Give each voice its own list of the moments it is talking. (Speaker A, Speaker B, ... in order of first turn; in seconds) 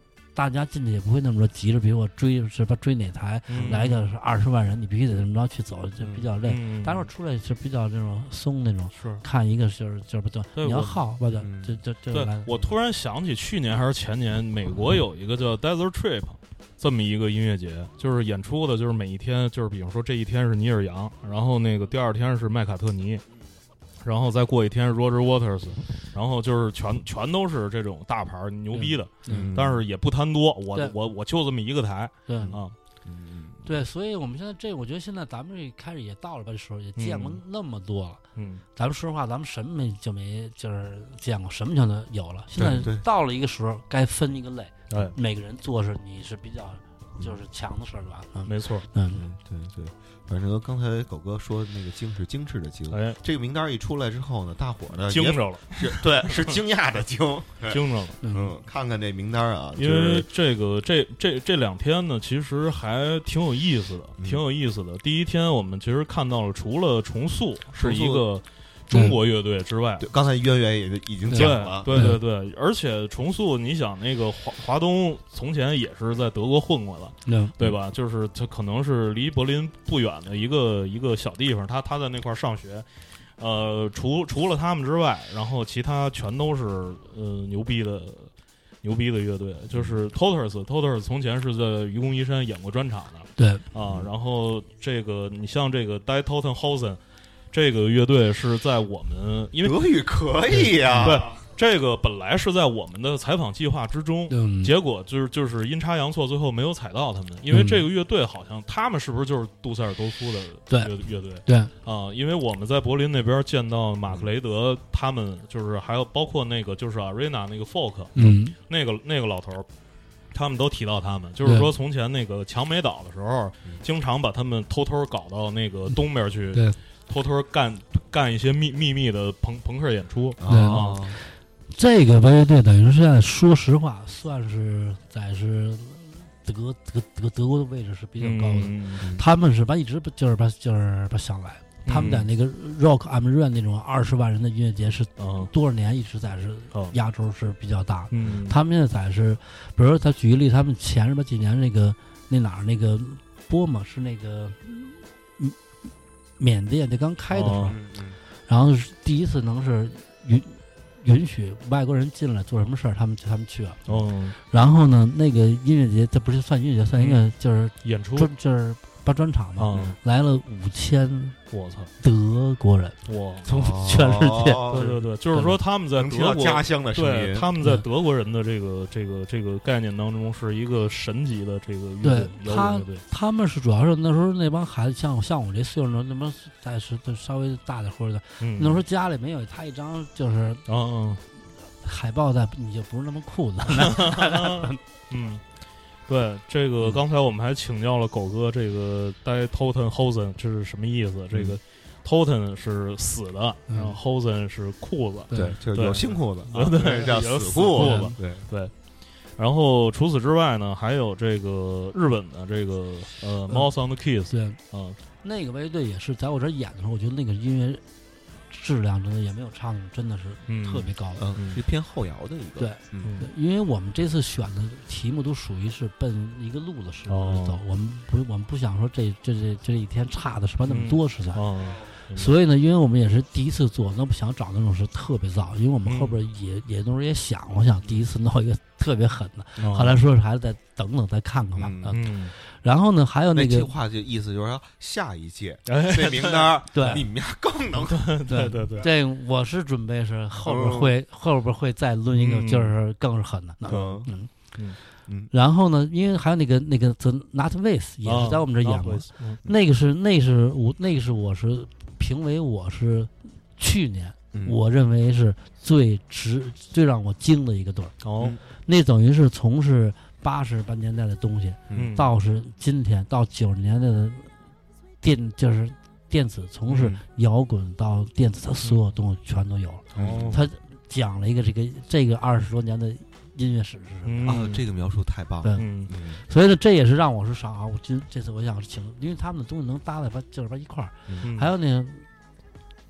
Speaker A: 0.3-12.7, 28.7-29.5, 32.3-32.6, 33.6-38.2, 38.8-49.2, 58.2-58.5, 68.9-69.2, 71.3-72.2, 77.3-77.5, 93.4-93.6, 100.5-101.2, 104.3-104.7, 107.5-107.8, 111.5-111.7, 118.2-118.6, 121.4-121.7, 130.5-155.6, 156.4-157.8, 158.5-163.8, 164.5-171.4, 172.0-175.6, 177.6-177.8, 182.0-190.7, 191.4-194.8, 203.7-204.0, 205.3-205.6, 207.8-208.2, 214.3-214.6, 215.2-217.8, 218.5-221.2, 222.6-231.4, 232.1-243.7, 246.7-247.0, 248.3-254.3, 255.3-268.0, 268.6-274.3, 275.0-284.4, 285.4-285.7, 286.2-292.1
Speaker B: 3.5-4.0, 6.5-7.1, 8.9-9.2, 10.6-11.0, 12.1-23.2, 24.0-32.8, 37.0-37.4, 38.4-38.6, 44.9-45.2, 48.5-48.9, 52.9-53.2, 55.1-56.6, 57.7-58.2, 59.8-70.1, 71.3-82.9, 83.4-88.3, 88.8-97.0, 97.5-99.9, 101.0-119.7, 120.3-131.0, 138.2-139.1, 141.8-142.3, 145.2-145.5, 148.1-148.6, 157.3-157.8, 163.9-164.4, 167.8-168.3, 169.6-170.0, 171.5-171.9, 173.1-173.5, 174.7-183.0, 188.4-188.8, 190.7-191.2, 193.7-195.4, 196.1-208.7, 209.4-215.0, 220.5-221.6, 223.0-223.3, 227.1-227.6, 230.7-232.3, 235.9-236.2, 239.6-240.0, 241.9-242.3, 245.7-247.0, 247.8-248.9, 252.2-252.7, 253.7-254.0, 258.1-259.4, 268.0-268.4, 271.7-272.1, 279.9-280.4, 284.1-284.6, 285.6-285.9, 291.2-291.5
Speaker C: 6.0-6.3, 11.4-11.8, 29.3-29.8, 32.4-33.7, 42.6-43.0, 49.1-60.3, 64.2-64.4, 67.7-68.3, 70.0-71.9, 89.7-90.0, 93.8-94.1, 99.6-101.3, 130.4-131.2, 157.7-158.2, 173.5-175.0, 176.0-177.5, 201.3-201.6, 205.3-208.5, 221.2-223.2, 241.6-242.0, 243.3-248.2, 250.4-250.9, 253.7-254.1, 255.1-255.3, 271.7-271.9, 279.9-280.4, 284.3-286.2